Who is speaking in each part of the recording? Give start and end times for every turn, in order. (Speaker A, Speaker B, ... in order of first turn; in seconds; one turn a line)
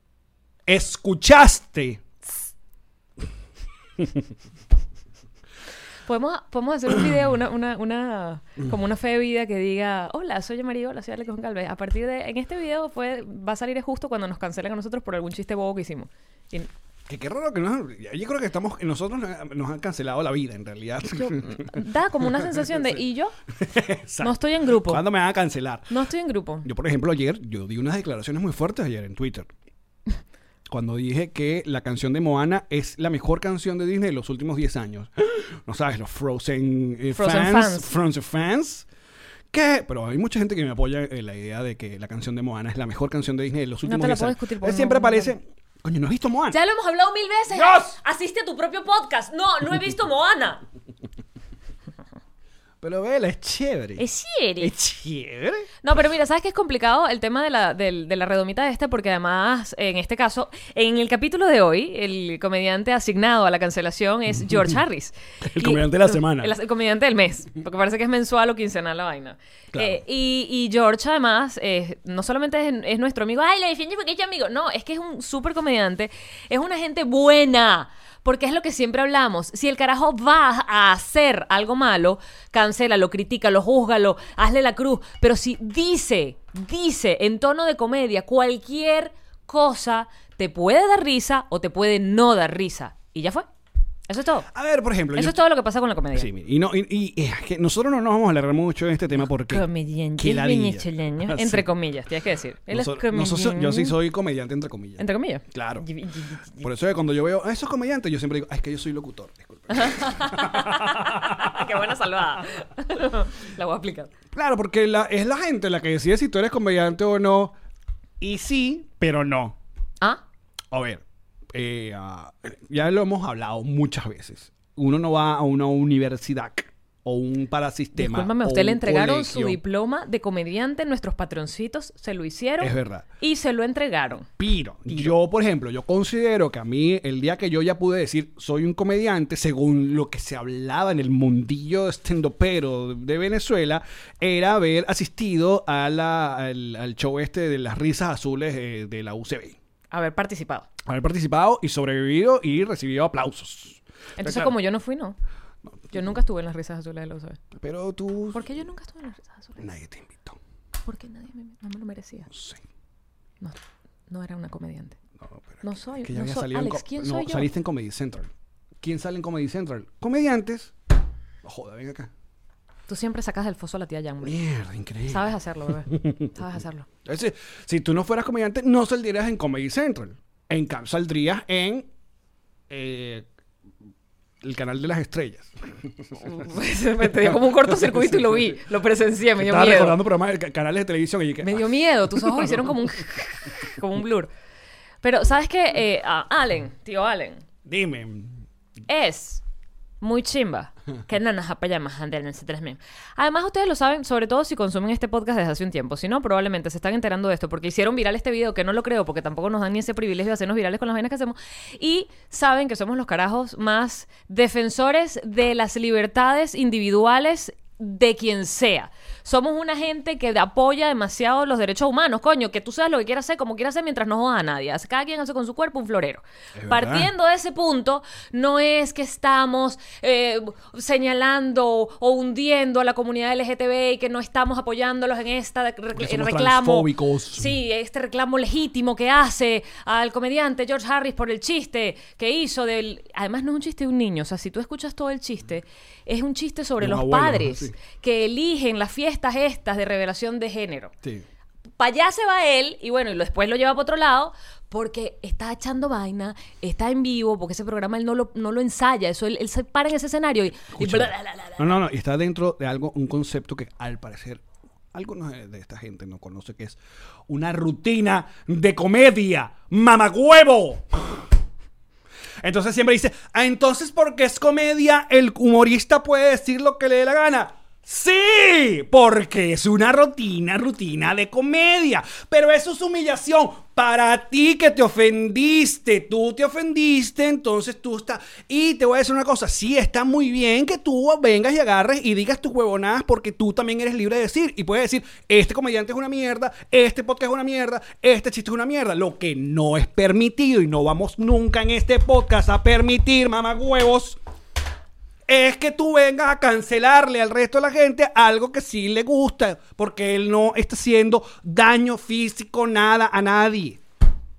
Speaker A: 0.7-2.0
Speaker B: 6.1-16.7
Speaker A: 17.1-21.7
Speaker B: 21.2-23.3
Speaker A: 22.2-23.0
Speaker A: 23.6-25.9
Speaker B: 24.2-25.0
Speaker B: 25.9-26.7
Speaker A: 26.6-29.5
Speaker A: 30.7-38.9
Speaker B: 37.1-37.9
Speaker A: 39.5-46.6
Speaker B: 43.9-45.3
Speaker B: 46.5-50.6
Speaker A: 47.5-47.9
Speaker A: 52.8-54.1
Speaker B: 54.0-54.7
Speaker A: 54.6-55.7
Speaker B: 55.8-93.5
Speaker A: 65.4-66.5
Speaker A: 69.7-70.0
Speaker B: 94.1-94.5
Speaker A: 94.5-95.4
Speaker B: 95.1-96.3
Speaker A: 96.1-99.7
Speaker B: 99.5-104.0
Speaker A: 100.2-101.7
Speaker A: 102.7-105.8
Speaker B: 105.0-106.7
Speaker A: 106.6-111.9
Speaker B: 109.7-114.1
Speaker A: 114.3-117.5
Speaker A: 118.2-119.6
Speaker A: 120.7-129.6
Speaker B: 128.0-134.3
Speaker A: 132.6-133.1
Speaker A: 134.4-149.6
Speaker B: 149.9-150.7
Speaker A: 150.8-154.5
Speaker B: 154.2-155.2
Speaker B: 155.9-157.4
Speaker A: 157.5-158.4
Speaker B: 158.3-159.6
Speaker A: 159.6-160.4
Speaker B: 160.8-162.3
Speaker A: 162.3-162.6
Speaker B: 164.1-165.0
Speaker A: 165.2-170.7
Speaker B: 165.6-167.5
Speaker A: 171.4-172.1
Speaker B: 172.9-174.4
Speaker A: 174.2-176.3
Speaker B: 175.1-176.9
Speaker A: 177.0-181.9
Speaker A: 182.7-183.3
Speaker A: 184.4-186.5
Speaker B: 186.2-190.0
Speaker A: 187.0-188.6
Speaker A: 189.4-192.7
Speaker B: 191.4-194.3
Speaker B: 195.0-197.4
Speaker A: 197.6-198.4
Speaker B: 198.9-199.4
Speaker B: 200.0-250.9
Speaker A: 226.5-227.1
Speaker A: 236.0-237.6
Speaker A: 246.8-247.7
Speaker B: 251.8-261.8
Speaker A: 260.8-271.2
Speaker A: 272.4-304.2
Speaker A: 305.3-313.8